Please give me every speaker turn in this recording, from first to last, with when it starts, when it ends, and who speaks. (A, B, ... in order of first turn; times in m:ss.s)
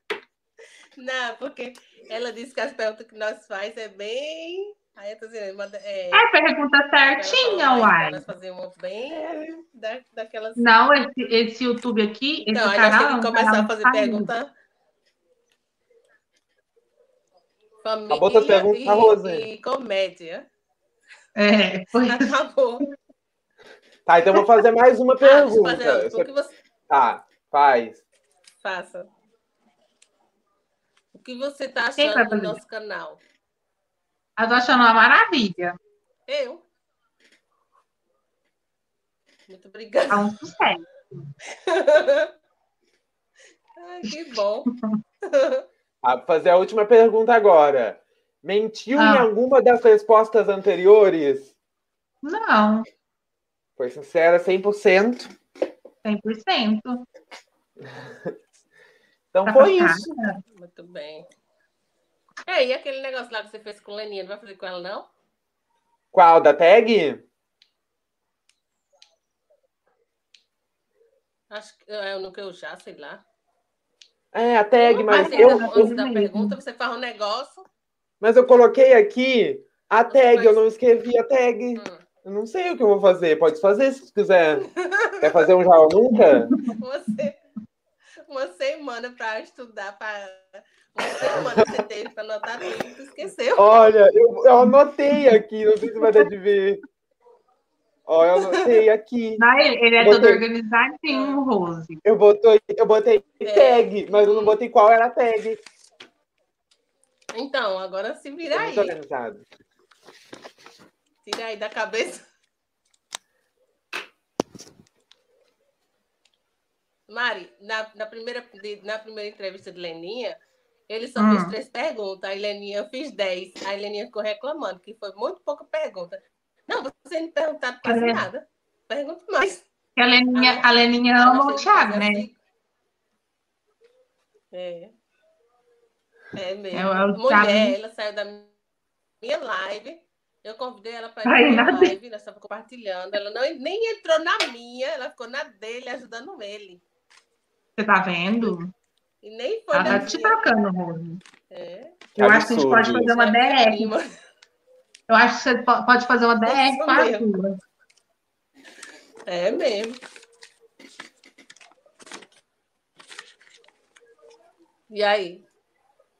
0:01.0-0:06.2 A
0:06.1-0:08.2 B
0:07.1-0:10.7 A
0:09.1-0:09.4 C
0:10.6-0:14.3 B
0:12.4-0:14.5 A
0:17.8-0:20.5 A
0:18.1-0:19.4 C
0:21.4-0:22.3 B
0:22.0-0:22.9 A
0:24.0-0:26.3 C
0:25.2-0:26.5 A
0:26.9-0:28.0 C
0:28.6-0:29.1 A
0:31.1-0:33.2 A
0:32.0-0:32.6 B
0:34.4-0:35.7 B
0:36.3-0:36.6 A
0:39.5-0:40.3 A
0:40.1-0:40.8 B
0:41.5-0:42.3 A
0:43.8-0:44.7 A
0:45.2-0:45.6 A
0:46.0-0:51.5 C
0:49.0-0:49.3 B
0:52.2-0:52.9 B
0:53.8-0:55.3 C
0:56.0-0:57.0 B
0:58.0-0:58.3 C
0:59.3-1:00.1 C
0:59.4-1:00.4 B
1:00.5-1:01.3 A
1:02.4-1:05.1 A
1:06.1-1:07.2 C
1:11.5-1:13.2 A
1:14.3-1:15.9 C
1:14.8-1:17.6 A
1:15.0-1:16.6 B
1:18.2-1:24.7 C
1:20.1-1:20.6 A
1:21.8-1:22.0 A
1:24.7-1:25.1 A
1:25.2-1:26.6 C
1:26.6-1:27.4 A
1:28.2-1:33.7 A
1:33.6-1:36.8 C
1:34.6-1:35.3 B
1:36.0-1:36.3 B
1:38.1-1:39.4 C
1:39.4-1:42.0 B
1:40.0-1:40.4 C
1:41.1-1:41.4 A
1:42.0-1:45.6 C
1:43.4-1:44.6 A
1:47.3-1:48.9 A
1:48.5-1:49.4 C
1:51.2-1:52.2 A
1:57.1-2:00.4 A
2:00.9-2:09.6 A
2:01.2-2:01.5 B
2:07.8-2:08.3 B
2:10.0-2:12.2 B
2:10.3-2:12.4 A
2:14.5-2:14.9 A
2:16.3-2:18.5 A
2:16.7-2:17.8 B
2:19.2-2:26.8 A
2:21.2-2:21.9 B
2:27.8-2:28.7 B
2:29.2-2:30.4 A
2:29.7-2:31.2 B
2:31.5-2:32.0 A
2:32.2-2:33.1 C
2:32.2-2:33.9 B
2:33.0-2:34.1 A
2:35.1-2:37.6 B
2:36.4-2:37.2 A
2:39.2-2:40.0 A
2:44.9-2:45.4 A